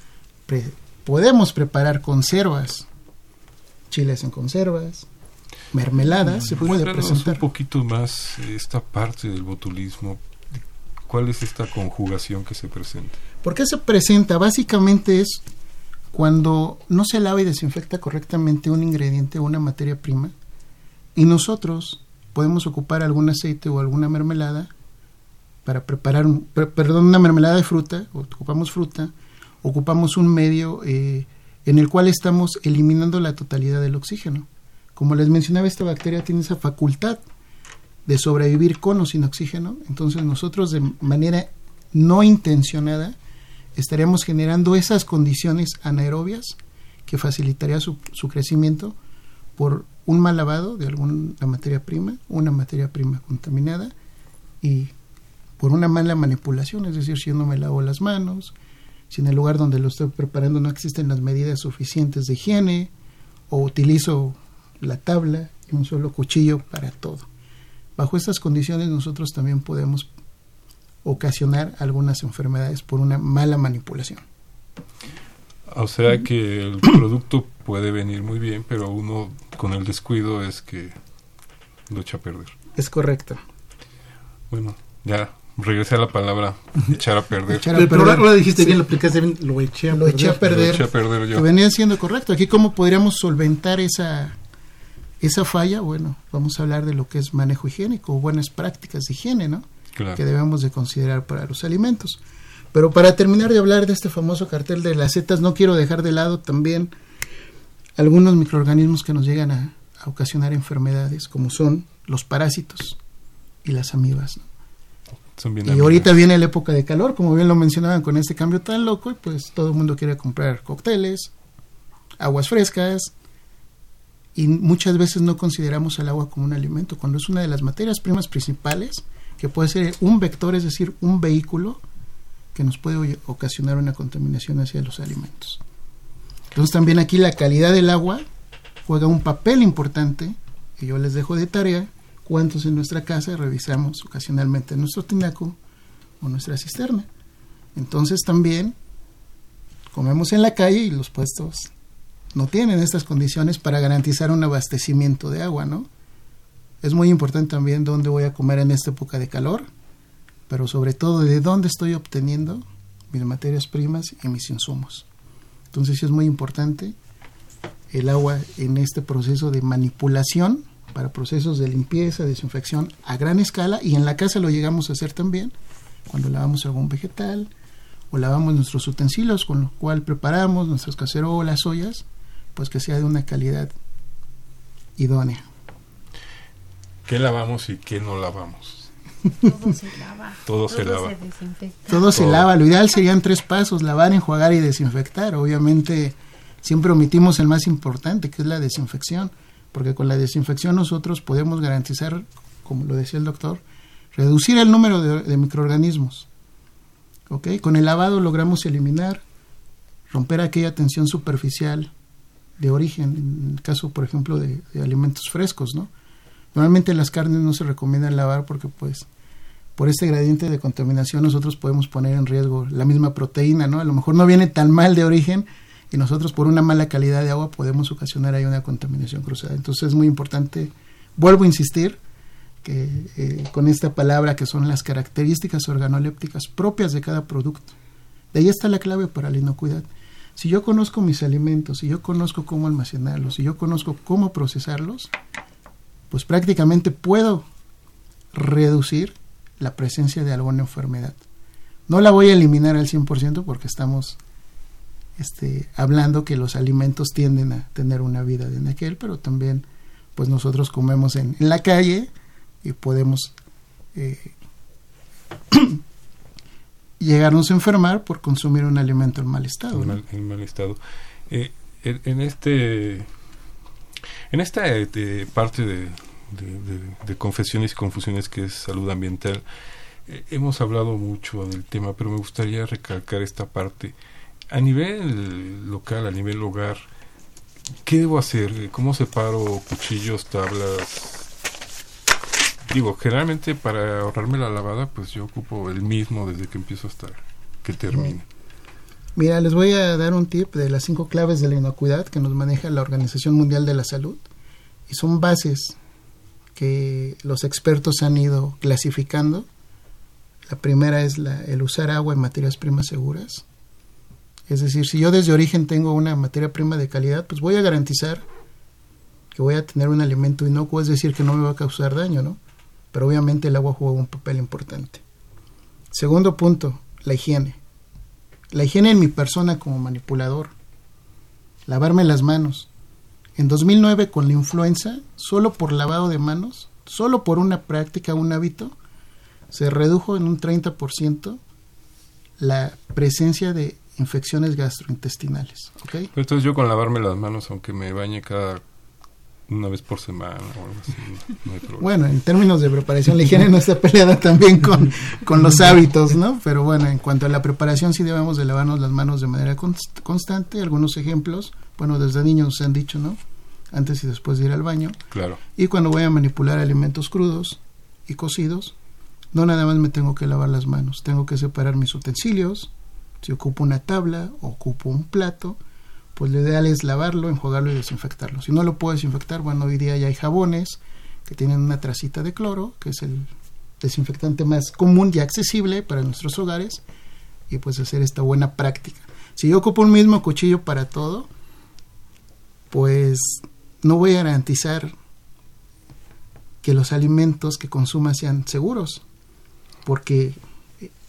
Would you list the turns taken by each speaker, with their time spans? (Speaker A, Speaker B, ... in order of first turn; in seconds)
Speaker A: 0.5-2.9, 3.9-5.1, 5.7-7.4, 13.4-15.4, 16.1-20.3, 21.1-24.7, 25.6-37.2, 38.0-43.1, 43.8-46.5, 47.1-49.0, 49.6-53.9, 54.6-54.9, 55.6-58.5, 59.1-62.9, 63.5-67.3, 68.0-70.1, 71.0-74.2, 82.8-83.4, 87.5-88.8, 89.9-94.3, 95.2-102.2, 102.7-106.9, 108.0-113.0, 113.6-114.4, 115.6-121.3, 122.2-123.1, 124.3-131.8, 132.5-135.6, 136.5-138.2, 138.8-145.6, 146.2-147.1, 147.8-148.8, 149.9-151.7, 152.3-155.9, 156.8-159.7, 160.5-165.0, 165.7-166.9, 167.9-175.5, 176.1-177.5, 178.1-182.0, 182.5-183.7, 185.0-185.4, 191.9-203.6, 204.1-206.3, 207.3-209.2, 210.1-211.9, 212.6-215.9, 216.5-219.1, 219.8-232.0, 232.6-237.7, 238.3-245.1, 246.1-247.4, 248.3-251.2, 251.9-254.2, 255.2-262.1, 262.6-263.3, 263.9-264.3, 265.5-265.8, 267.0-270.0, 299.1-304.2, 304.9-305.8, 306.6-309.5, 310.4-313.4, 314.5-318.2, 319.3-322.4, 322.9-325.0, 325.9-327.6, 328.5-330.5, 331.7-332.7, 333.4-338.7, 339.5-341.4, 342.4-346.1, 351.8-363.2, 363.7-365.0, 365.6-368.7, 369.3-372.7, 373.2-375.6, 376.1-386.8, 387.5-391.3, 392.7-394.9, 396.6-399.0, 399.8-400.9
Speaker B: 6.3-13.2, 75.7-81.0, 81.9-82.5, 84.5-87.9, 90.3-91.5, 99.9-100.2, 115.4-116.2, 187.1-188.9, 190.4-191.1, 192.1-192.5, 269.7-273.1, 274.3-279.4, 280.1-283.9, 284.5-286.9, 287.8-291.3, 292.6-298.2, 346.1-348.6, 349.5-351.9, 365.1-365.4
Speaker C: 87.7-90.5
Speaker D: 189.4-191.9